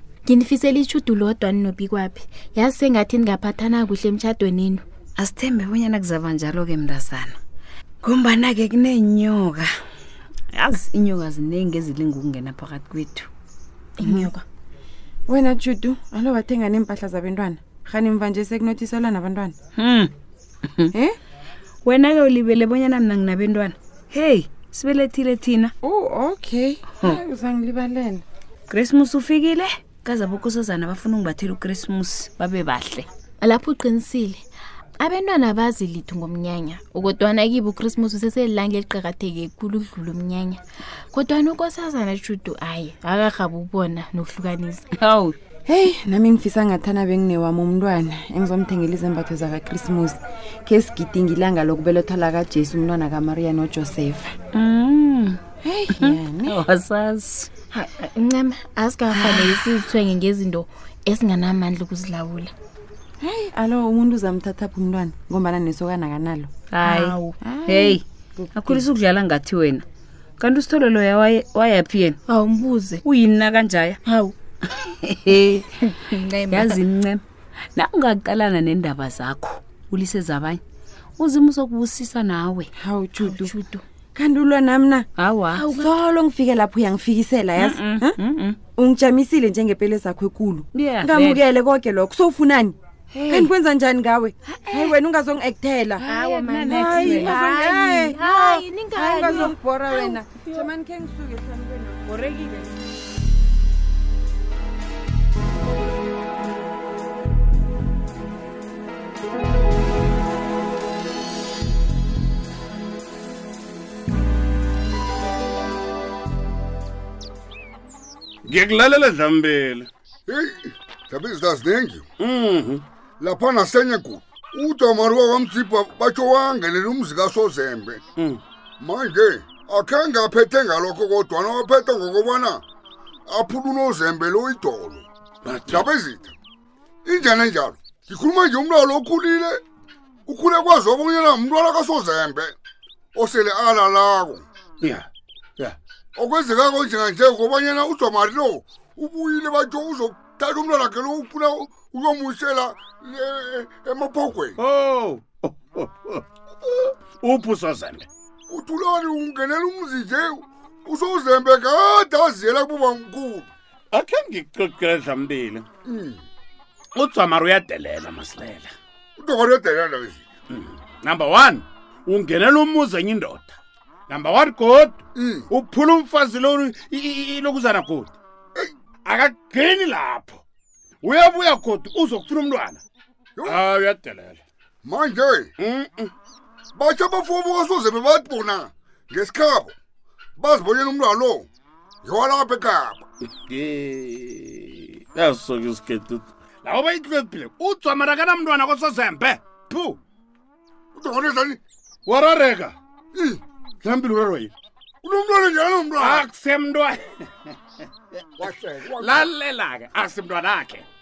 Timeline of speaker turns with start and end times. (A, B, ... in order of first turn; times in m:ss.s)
0:00.2-0:04.8 A
0:05.2-0:07.4 B
0:08.0-0:09.7 B
0:10.5-0:13.3 B
0:14.0-0:14.4 A
0:15.3-0:19.6 C
0:19.8-0:20.1 B
0:20.7-0:21.0 B
0:21.8-0:25.7 B
0:25.8-0:28.2 C
0:28.7-0:33.1 B
0:33.4-0:34.4 A
0:35.0-0:44.9 A
0:45.0-0:45.4 B
0:45.7-0:54.4 C
0:54.5-0:57.5 B
0:55.6-0:56.6 C
0:57.7-1:02.5 A
0:59.1-0:59.7 B
1:03.2-1:06.5 C
1:06.7-1:08.0 B
1:06.8-1:07.4 A
1:07.4-1:08.8 C
1:08.6-1:09.8 B
1:10.4-1:12.2 B
1:12.3-1:13.0 A
1:13.0-1:14.0 B
1:14.0-1:14.4 A
1:14.7-1:17.2 B
1:16.0-1:16.7 A
1:17.8-1:20.6 B
1:21.2-1:22.7 B
1:22.8-1:23.5 C
1:23.2-1:23.8 A
1:24.2-1:25.1 C
1:25.2-1:25.7 B
1:25.6-1:25.9 A
1:25.7-1:28.2 C
1:27.6-1:28.6 B
1:28.8-1:42.7 C
1:30.7-1:31.5 B
1:33.1-1:33.5 B
1:34.4-1:35.0 B
1:36.0-1:40.2 A
1:36.0-1:37.5 B
1:40.4-1:40.7 B
1:58.5-1:59.9 D
2:00.3-2:02.0 E
2:02.2-2:02.8 D
2:03.2-2:08.0 E
2:08.8-2:12.6 E
2:13.3-2:15.1 E
2:15.4-2:15.9 D
2:15.7-2:16.3 E
2:17.0-2:19.6 E
2:20.3-2:22.5 E
2:23.2-2:24.5 E
2:24.8-2:25.1 D
2:26.2-2:34.6 E
2:34.6-2:38.1 D
2:38.5-2:43.5 E
2:43.9-2:45.7 D
2:45.9-2:46.2 E
2:47.0-2:48.7 D
2:49.2-2:50.2 E
2:50.5-2:53.6 D
2:54.1-2:58.1 D
2:55.2-2:55.5 E
2:59.0-3:00.4 D
3:01.0-3:02.8 D
3:03.4-3:04.4 D
3:04.8-3:05.5 E
3:05.6-3:06.1 D
3:06.8-3:09.7 E
3:10.4-3:11.5 E
3:12.0-3:13.0 E
3:13.5-3:20.0 D
3:21.0-3:21.6 E
3:22.1-3:22.8 D
3:23.1-3:23.4 E
3:23.8-3:24.5 D
3:25.0-3:26.3 E
3:26.0-3:27.3 D
3:28.4-3:29.3 E
3:28.4-3:30.9 D